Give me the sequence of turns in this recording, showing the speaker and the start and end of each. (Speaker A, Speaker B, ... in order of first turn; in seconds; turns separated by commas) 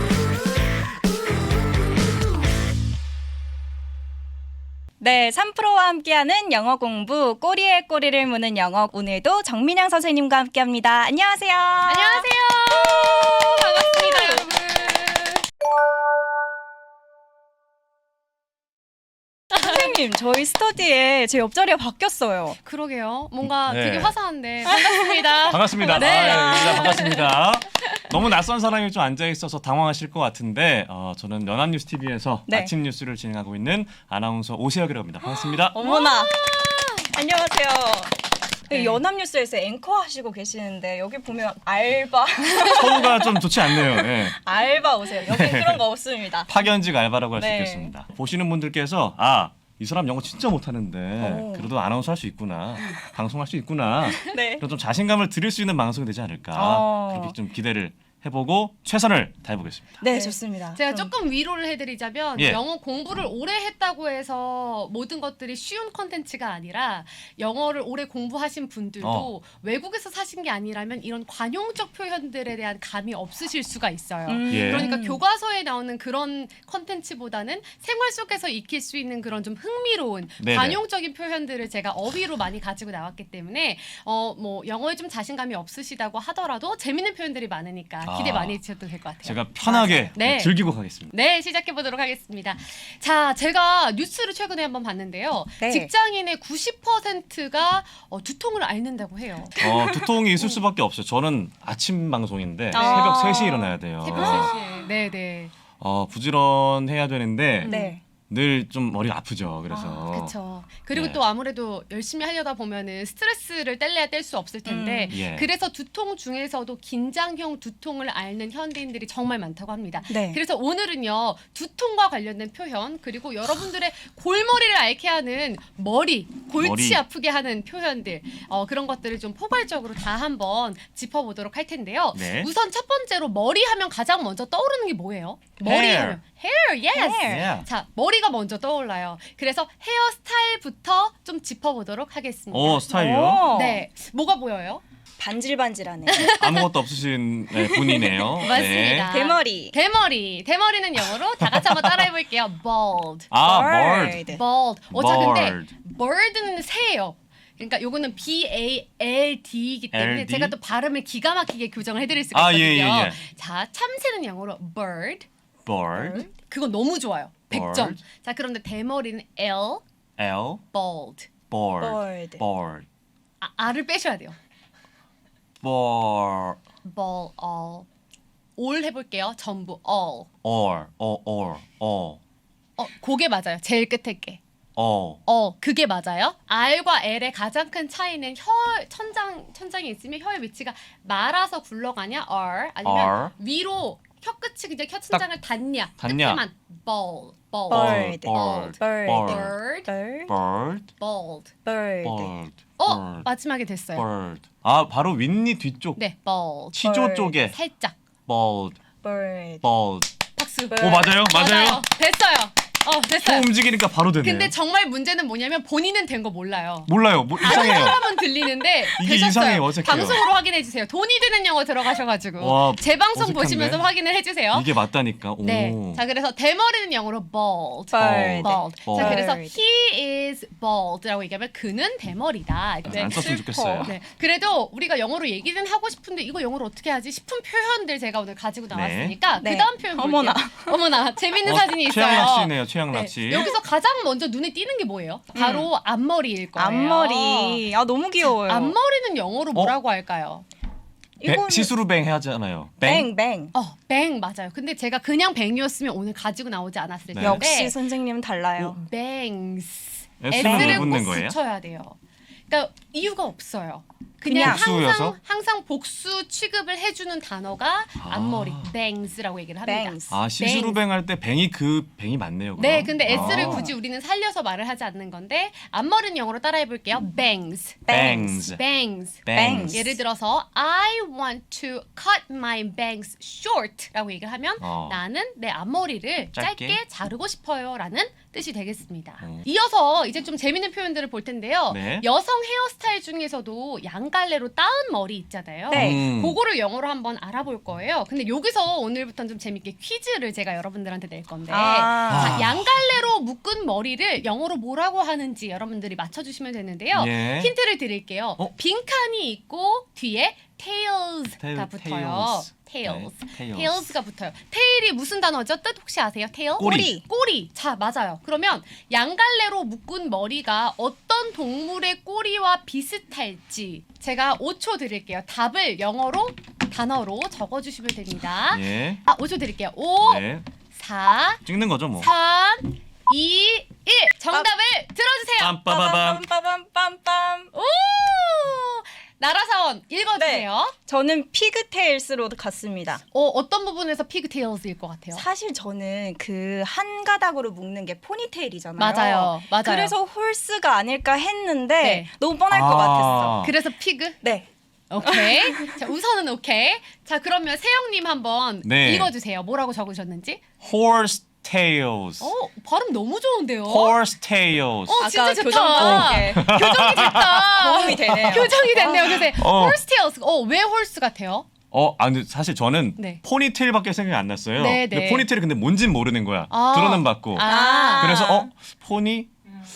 Speaker A: 5.0-12.3, Speaker B: 11.9-15.4, Speaker A: 13.2-14.5, Speaker A: 19.5-22.6, Speaker B: 22.6-27.2, Speaker C: 23.5-24.2, Speaker A: 24.6-26.7, Speaker C: 25.5-35.8, Speaker A: 32.5-32.7, Speaker A: 35.6-36.5, Speaker B: 35.9-36.9, Speaker A: 37.1-46.5, Speaker B: 38.7-39.0, Speaker C: 42.7-44.4, Speaker C: 45.3-45.9, Speaker C: 46.5-60.0, Speaker A: 47.4-47.9, Speaker A: 51.2-51.7, Speaker A: 54.2-54.6, Speaker A: 56.5-57.4, Speaker A: 60.0-61.1, Speaker B: 60.1-90.5, Speaker C: 62.4-62.6, Speaker C: 69.0-69.3, Speaker A: 74.3-75.2, Speaker C: 74.5-74.9, Speaker C: 80.4-80.8, Speaker C: 88.0-88.6, Speaker C: 89.2-91.1, Speaker B: 91.1-99.5, Speaker A: 95.6-95.9, Speaker A: 99.6-100.6, Speaker C: 99.6-104.6, Speaker A: 102.7-104.9, Speaker B: 102.7-103.2, Speaker B: 104.0-105.5, Speaker C: 105.8-107.7, Speaker B: 107.6-107.9, Speaker A: 107.7-108.0, Speaker C: 108.3-110.3, Speaker A: 109.7-110.1, Speaker B: 110.1-142.9, Speaker C: 110.9-111.2, Speaker A: 114.7-115.2, Speaker C: 115.1-115.5, Speaker A: 120.1-120.4, Speaker C: 126.6-127.0, Speaker C: 132.1-132.5, Speaker C: 135.6-136.2, Speaker A: 136.9-137.5, Speaker C: 137.3-137.7, Speaker C: 142.5-143.6, Speaker A: 142.9-143.8, Speaker B: 143.5-144.8, Speaker A: 145.2-146.3, Speaker B: 146.1-146.7, Speaker C: 146.4-149.1, Speaker B: 147.6-153.3, Speaker A: 149.1-149.8, Speaker C: 151.5-152.0, Speaker C: 153.3-154.3, Speaker A: 153.4-154.4, Speaker B: 154.3-165.3, Speaker C: 154.9-155.7, Speaker C: 159.9-160.6, Speaker C: 162.3-163.2, Speaker C: 165.7-166.3, Speaker A: 165.9-166.3, Speaker B: 166.3-169.8, Speaker C: 167.5-168.0, Speaker C: 170.2-170.6, Speaker B: 170.7-171.3, Speaker C: 171.5-172.9, Speaker A: 171.8-172.4, Speaker B: 173.4-174.4, Speaker C: 175.6-176.6, Speaker B: 176.8-177.9, Speaker B: 178.6-180.3, Speaker C: 180.4-182.2, Speaker B: 182.8-184.4, Speaker C: 184.8-185.2, Speaker B: 185.3-199.9, Speaker C: 192.8-193.3, Speaker C: 196.0-196.4, Speaker A: 197.7-200.3, Speaker C: 197.7-199.6, Speaker C: 200.3-200.9, Speaker B: 201.0-201.5, Speaker A: 201.6-202.3, Speaker C: 202.0-203.3, Speaker B: 202.8-204.1, Speaker C: 203.9-206.0, Speaker B: 206.0-206.9, Speaker C: 206.7-207.6, Speaker A: 206.8-207.4, Speaker B: 207.5-207.9, Speaker C: 208.3-208.8, Speaker A: 209.0-209.6, Speaker C: 209.6-210.1, Speaker B: 210.4-213.5, Speaker A: 210.7-211.1, Speaker C: 210.7-211.9, Speaker C: 213.2-214.5, Speaker B: 214.2-216.9, Speaker C: 216.9-218.0, Speaker B: 217.4-224.7, Speaker C: 218.9-220.2, Speaker C: 222.4-223.9, Speaker C: 224.5-226.0, Speaker B: 225.4-247.7, Speaker A: 227.9-229.6, Speaker C: 228.0-229.2, Speaker C: 232.8-233.9, Speaker A: 232.9-233.9, Speaker C: 238.7-239.2, Speaker A: 239.4-240.8, Speaker C: 241.4-243.5, Speaker A: 245.3-245.7, Speaker A: 246.6-248.8, Speaker B: 248.2-250.5, Speaker A: 251.2-251.7, Speaker C: 251.2-253.1, Speaker A: 252.8-253.5, Speaker B: 253.5-257.8, Speaker C: 257.1-257.5, Speaker A: 257.2-258.8, Speaker B: 258.6-262.0, Speaker C: 260.2-261.4, Speaker A: 260.4-261.0, Speaker B: 262.5-270.8, Speaker A: 264.2-264.6, Speaker C: 264.4-265.2, Speaker C: 268.0-268.7, Speaker A: 269.6-270.2, Speaker C: 270.1-273.7, Speaker B: 272.6-279.2, Speaker A: 273.1-273.7, Speaker A: 277.9-278.4, Speaker C: 277.9-278.6, Speaker C: 279.2-279.9, Speaker A: 279.3-279.9, Speaker B: 279.7-331.4, Speaker C: 284.6-285.0, Speaker C: 286.3-286.8, Speaker C: 289.2-289.5, Speaker C: 291.7-292.1, Speaker A: 295.7-296.1, Speaker C: 295.7-296.4, Speaker A: 301.5-302.5, Speaker C: 302.1-302.7, Speaker C: 307.0-307.5, Speaker C: 311.4-313.9, Speaker C: 316.6-317.0, Speaker A: 316.6-317.1, Speaker C: 328.5-329.0, Speaker C: 330.1-330.5, Speaker C: 331.4-332.1, Speaker B: 332.0-335.7, Speaker C: 335.4-336.2, Speaker A: 335.7-337.5, Speaker B: 337.5-340.7, Speaker A: 340.1-343.0, Speaker B: 343.1-345.2, Speaker A: 345.1-353.5, Speaker B: 348.8-349.9, Speaker B: 351.8-352.1, Speaker C: 352.5-353.5, Speaker B: 353.4-354.2, Speaker A: 354.2-354.5, Speaker B: 354.9-360.4, Speaker A: 355.0-355.8, Speaker C: 358.6-359.1, Speaker C: 360.6-362.3, Speaker B: 362.2-364.0, Speaker C: 363.7-365.0, Speaker B: 364.9-371.5, Speaker A: 365.0-366.5, Speaker C: 365.8-367.4, Speaker A: 367.6-369.3, Speaker C: 369.4-369.8, Speaker C: 371.7-379.3, Speaker B: 374.6-375.3, Speaker B: 376.5-378.1, Speaker A: 377.4-378.5